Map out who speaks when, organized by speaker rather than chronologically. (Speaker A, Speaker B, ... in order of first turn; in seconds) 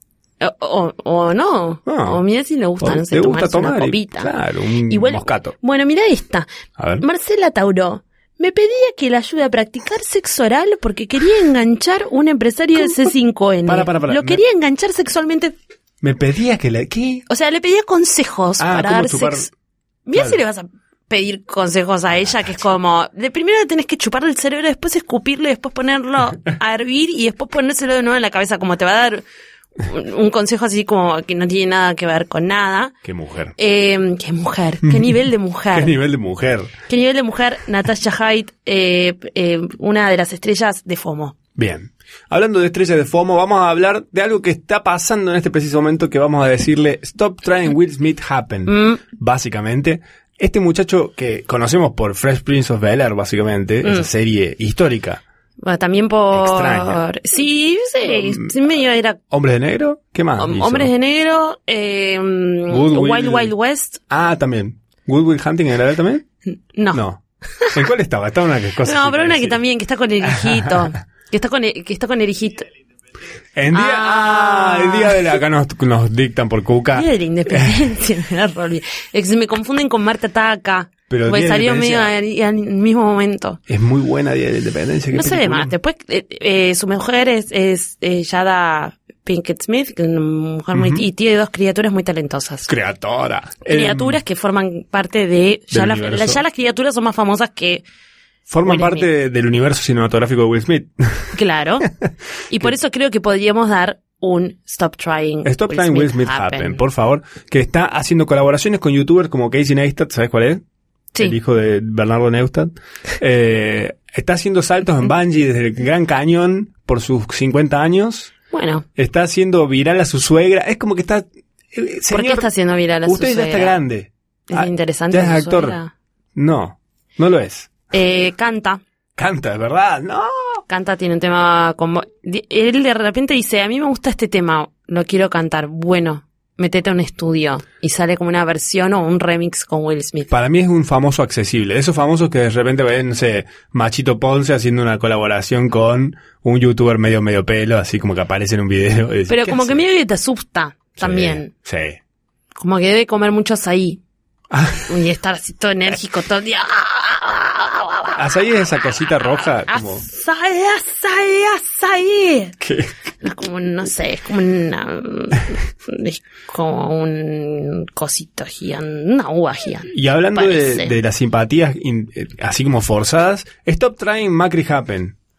Speaker A: 0.4-4.3, 4.9-6.5, 7.0-15.5, 17.3-19.5, 20.1-29.2, 29.8-33.0, 33.6-35.9, 36.9-41.4, 48.7-49.0, 55.6-59.2, 60.4-64.0, 66.7-67.0, 68.8-72.7, 73.7-75.4, 77.0-83.6, 85.1-92.7, 93.7-97.8, 98.7-99.1, 101.3-101.9, 102.5-106.8, 118.5-118.9, 122.1-123.8, 124.5-125.9, 127.9-128.8, 130.7-140.3, 149.3-151.5, 152.6-154.0, 154.9-158.3, 158.8-162.6, 163.2-170.9
Speaker B: 1.9-2.2, 2.8-5.6, 6.8-7.0, 13.7-14.4, 16.0-17.2, 18.6-19.5, 33.0-33.5, 34.8-35.2, 35.7-36.7, 41.6-55.2, 56.3-57.0, 58.1-58.5, 59.3-60.9, 62.7-63.5, 64.1-66.2, 66.9-67.2, 67.7-69.6, 70.2-70.9, 73.5-77.9, 81.1-82.1, 83.7-85.7, 90.7-91.0, 92.7-94.2, 95.7-96.4, 98.5-101.3, 101.9-102.7, 105.5-110.6, 111.2-118.3, 119.0-122.5, 123.0-125.8, 126.3-127.8, 129.2-130.6, 140.3-149.8, 151.0-152.0, 154.5-154.9, 158.2-160.1, 162.6-162.9, 169.9-175.2